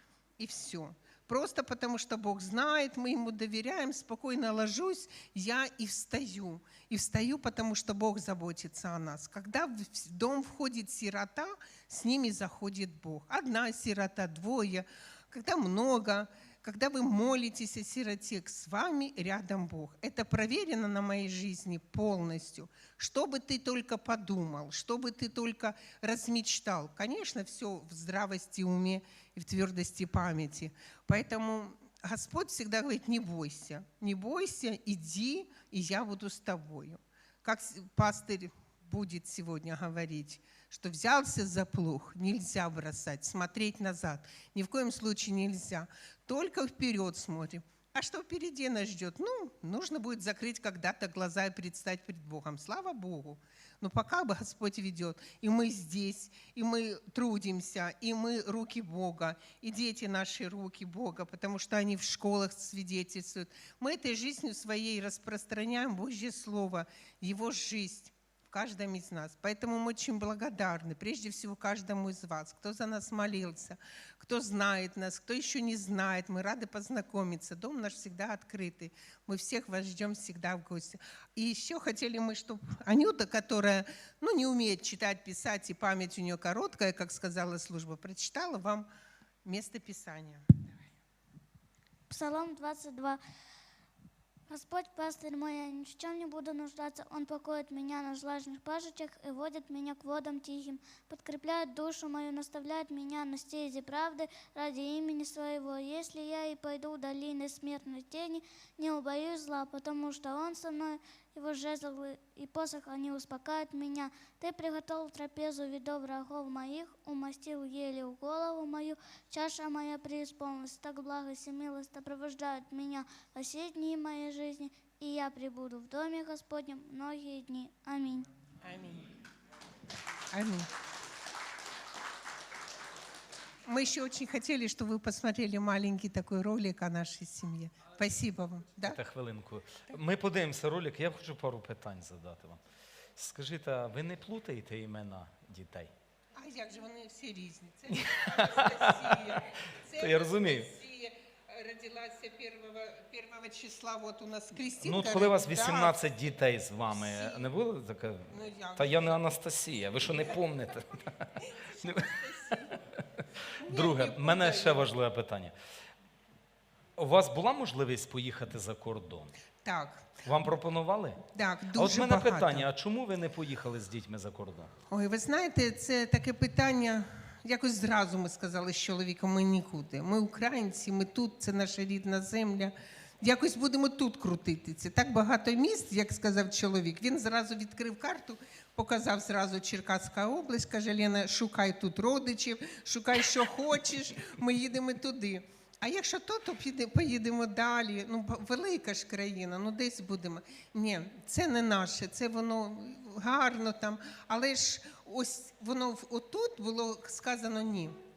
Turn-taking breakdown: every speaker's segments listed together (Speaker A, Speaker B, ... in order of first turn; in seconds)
Speaker A: 0.4-88.9, 89.4-90.8, 128.6-129.1, 130.3-130.7, 133.7-139.0, 146.4-156.0, 156.9-157.5, 158.3-159.2, 161.4-162.7, 163.6-164.9, 169.6-170.1, 171.3-172.7, 174.9-208.0
Speaker B: 92.1-93.2, 94.5-128.3
Speaker C: 138.8-142.6, 143.2-145.9, 148.0-149.3, 150.0-150.7, 154.8-162.3, 163.7-165.5, 166.9-169.3, 170.2-171.2, 171.7-174.7